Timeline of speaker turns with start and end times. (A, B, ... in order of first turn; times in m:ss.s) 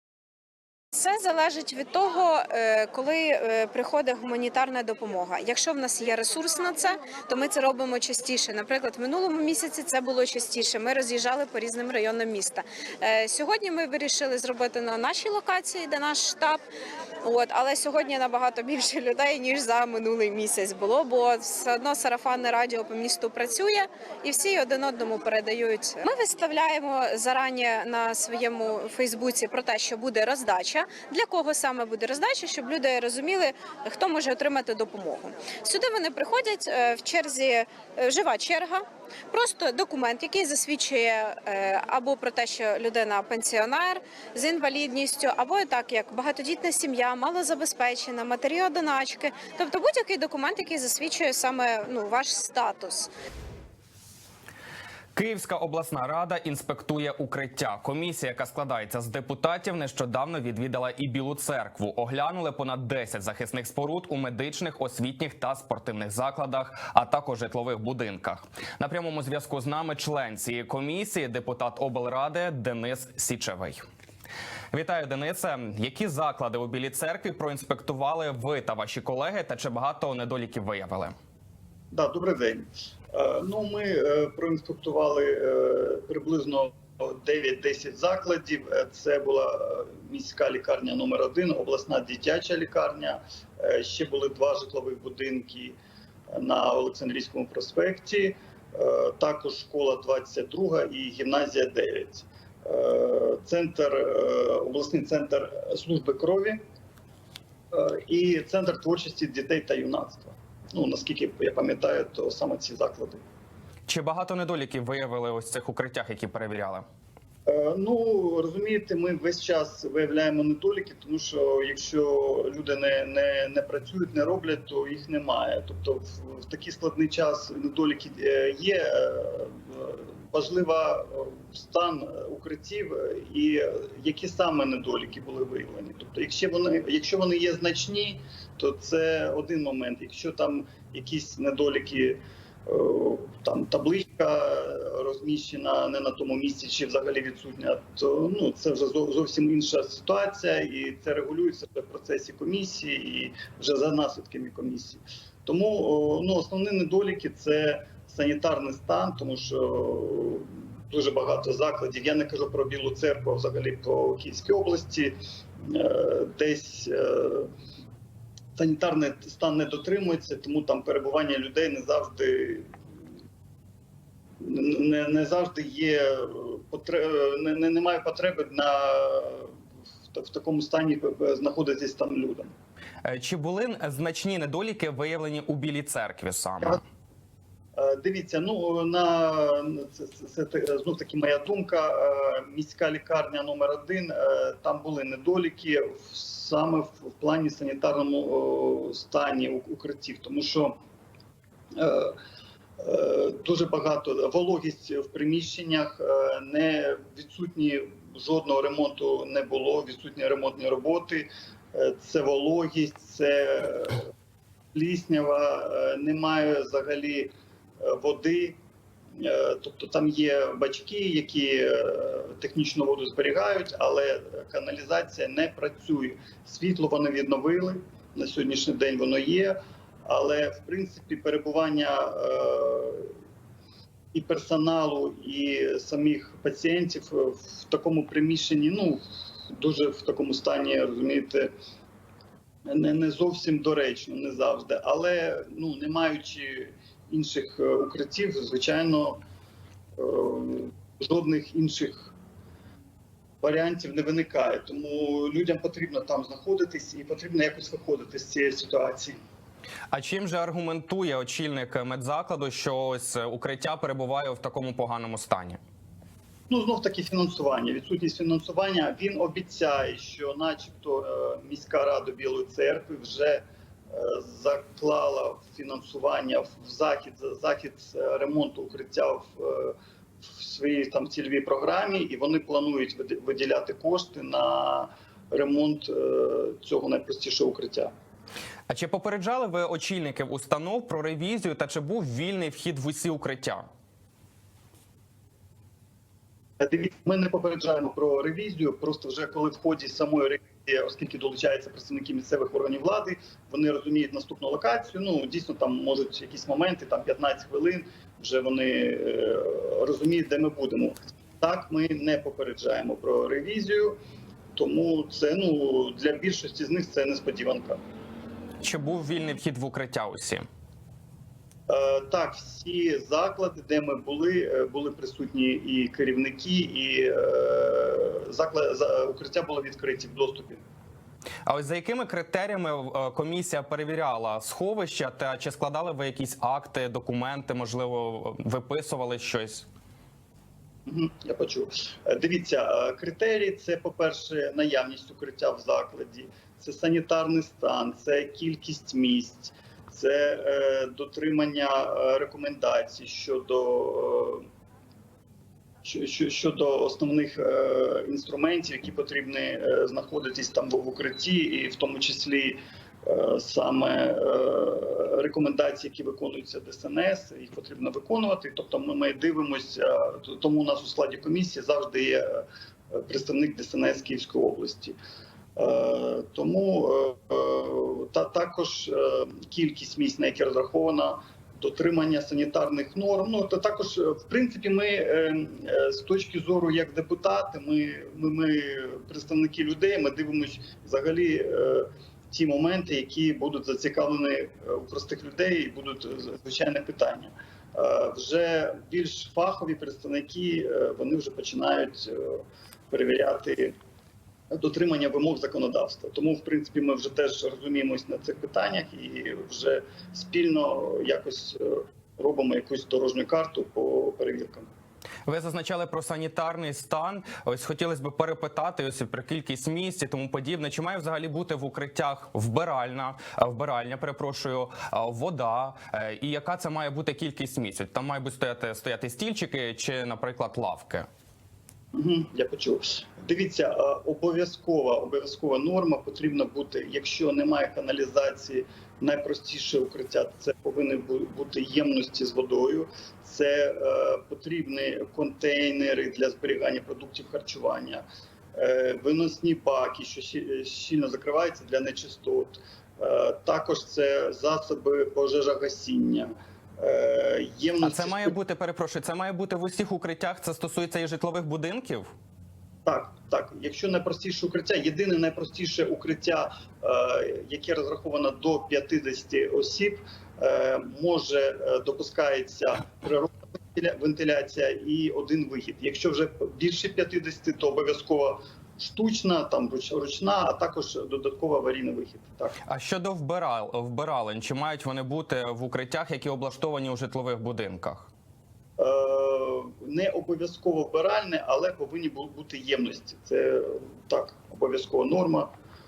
0:00.9-0:16.6 A
0:17.2-0:53.1 A
0:55.2-1:13.8 B
1:14.7-1:21.2 B
1:21.9-1:35.8 C
1:36.3-1:46.6 C
1:47.7-1:53.2 C
1:53.9-1:56.9 B
1:57.5-2:47.5 C
2:48.6-2:52.7 C
2:54.4-2:59.5 C
3:00.1-3:02.5 C
3:03.0-3:06.8 B
3:07.8-3:20.8 C
3:21.7-3:22.2 C
3:22.8-3:34.0 C
3:34.7-3:38.6 C
3:39.2-3:53.1 C
3:54.1-4:01.6 C
4:02.7-4:09.2 C
4:10.0-4:12.1 C
4:13.4-4:19.2 C
4:19.9-4:25.6 B
4:26.5-4:47.9 C
4:48.7-4:53.7 B
4:56.6-5:14.0 C
5:14.6-5:17.8 C
5:18.6-5:20.5 B
5:21.7-5:30.6 C
5:31.4-5:39.7 B
5:40.9-5:54.5 C
5:55.8-6:15.0 C
6:15.6-6:43.8 C
6:44.5-6:54.7 C
6:55.3-7:11.1 B
7:11.9-7:38.4 C
7:37.8-7:42.1 B
7:42.9-8:02.6 C
8:02.7-8:08.1 B
8:08.8-8:15.5 C